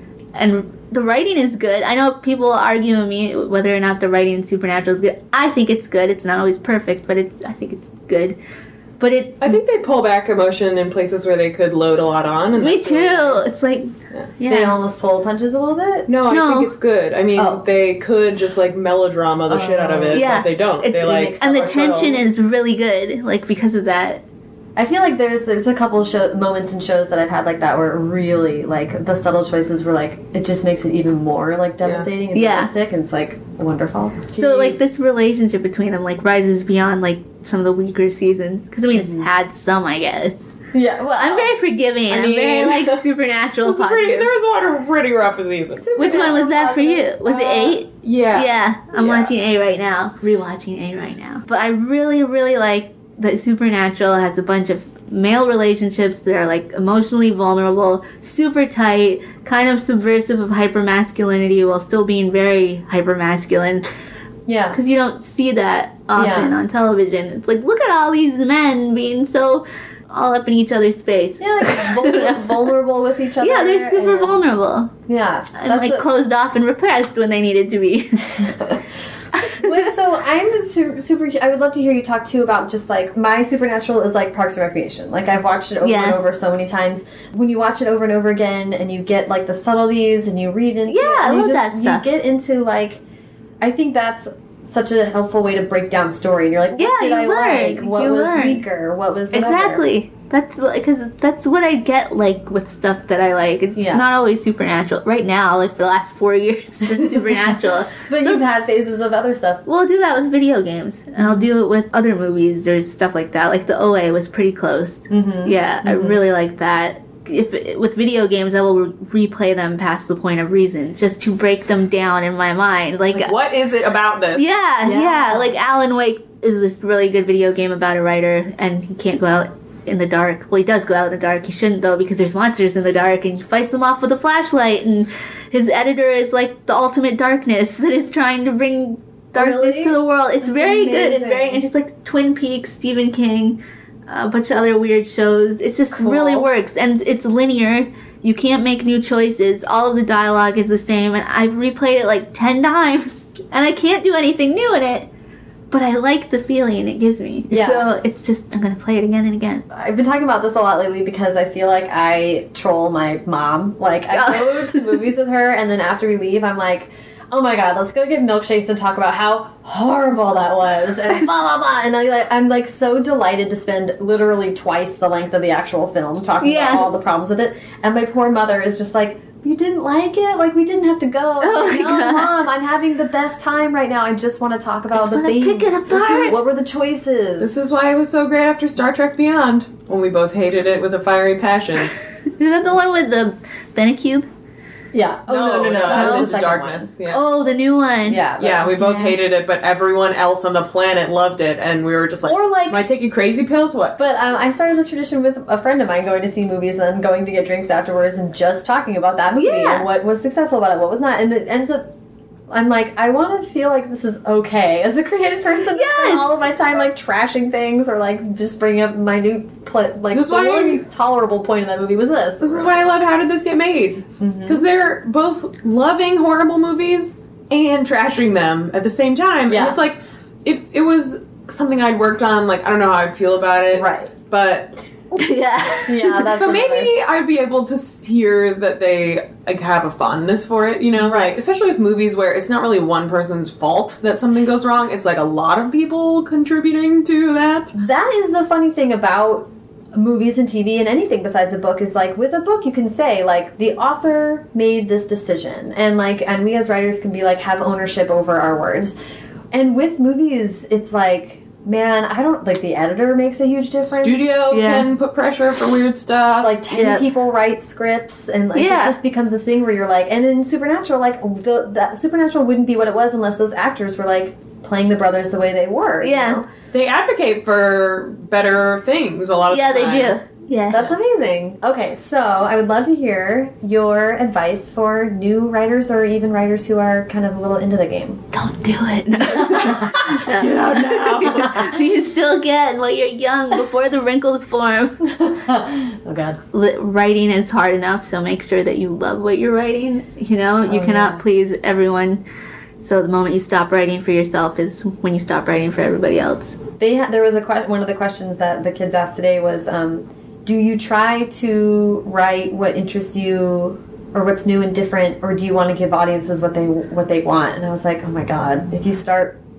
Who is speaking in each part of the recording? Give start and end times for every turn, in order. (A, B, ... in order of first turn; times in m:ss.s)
0:00.4-0:08.4 A
0:09.0-0:09.6 A
0:09.4-0:13.5 B
0:12.6-0:14.8 A
0:14.4-0:16.1 C
0:16.1-0:22.2 B
0:16.3-0:16.7 A
0:17.4-0:17.6 C
0:19.5-0:20.3 C
0:20.1-0:24.2 A
0:21.0-0:22.2 C
0:24.8-0:34.3 C
0:31.8-0:32.1 B
0:32.3-0:32.7 A
0:34.3-0:34.8 B
0:34.4-0:40.5 A
0:38.9-0:39.3 C
0:40.7-0:41.6 C
0:41.2-0:44.3 A
0:42.1-0:43.0 C
0:42.2-0:42.8 B
0:43.6-0:46.3 B
0:45.7-0:47.7 C
0:46.0-1:03.9 A
0:47.3-0:48.5 B
1:04.5-1:04.8 C
1:04.7-1:12.7 A
1:06.2-1:06.5 C
1:11.4-1:14.4 C
1:13.4-1:14.9 A
1:15.1-1:16.1 C
1:15.6-1:18.8 A
1:19.4-1:19.8 A
1:19.4-1:33.0 C
1:25.8-1:26.2 A
1:30.9-1:32.1 A
1:33.6-1:39.8 C
1:36.8-1:38.6 A
1:39.3-1:48.4 A
1:43.8-1:44.1 C
1:46.9-1:49.7 C
1:49.7-2:03.3 A
1:51.2-1:51.4 C
1:55.1-1:56.2 C
2:03.1-2:04.6 B
2:04.4-2:35.1 A
2:04.8-2:05.6 C
2:19.3-2:21.6 C
2:25.9-2:26.5 C
2:35.7-2:39.7 A
2:37.5-2:37.9 C
2:39.7-3:07.6 C
2:44.1-2:45.0 A
2:56.4-2:56.9 A
3:01.4-3:02.4 A
3:04.9-3:06.4 A
3:05.9-3:06.5 B
3:07.4-3:11.9 B
3:12.3-3:14.3 A
3:14.9-3:16.9 C
3:15.3-3:17.2 B
3:15.9-3:16.3 A
3:17.1-3:18.2 A
3:18.1-3:19.2 C
3:18.4-3:24.0 B
3:22.2-3:22.8 C
3:24.0-3:31.9 C
3:29.4-3:29.9 A
3:32.5-3:42.8 C
3:35.7-3:36.3 A
3:40.1-3:40.8 B
3:42.4-3:54.8 B
3:44.2-3:44.6 C
3:49.5-3:49.8 C
3:53.7-3:54.1 C
3:55.1-3:56.2 A
3:55.9-3:56.9 C
3:56.1-4:07.8 B
4:01.0-4:01.4 C
4:07.8-4:18.9 C
4:19.5-4:24.3 C
4:23.9-4:26.6 B
4:24.5-4:24.9 A
4:26.4-4:36.5 C
4:26.7-4:27.1 A
4:28.6-4:29.0 A
4:36.0-4:36.4 A
4:36.7-4:40.2 B
4:39.5-4:40.9 A
4:40.7-4:48.2 C
4:48.3-4:55.1 A
4:49.4-4:49.9 C
4:49.7-4:51.7 B
4:55.1-4:56.4 C
4:56.5-5:02.2 A
5:00.6-5:01.2 C
5:02.8-5:06.6 A
5:06.8-5:19.4 C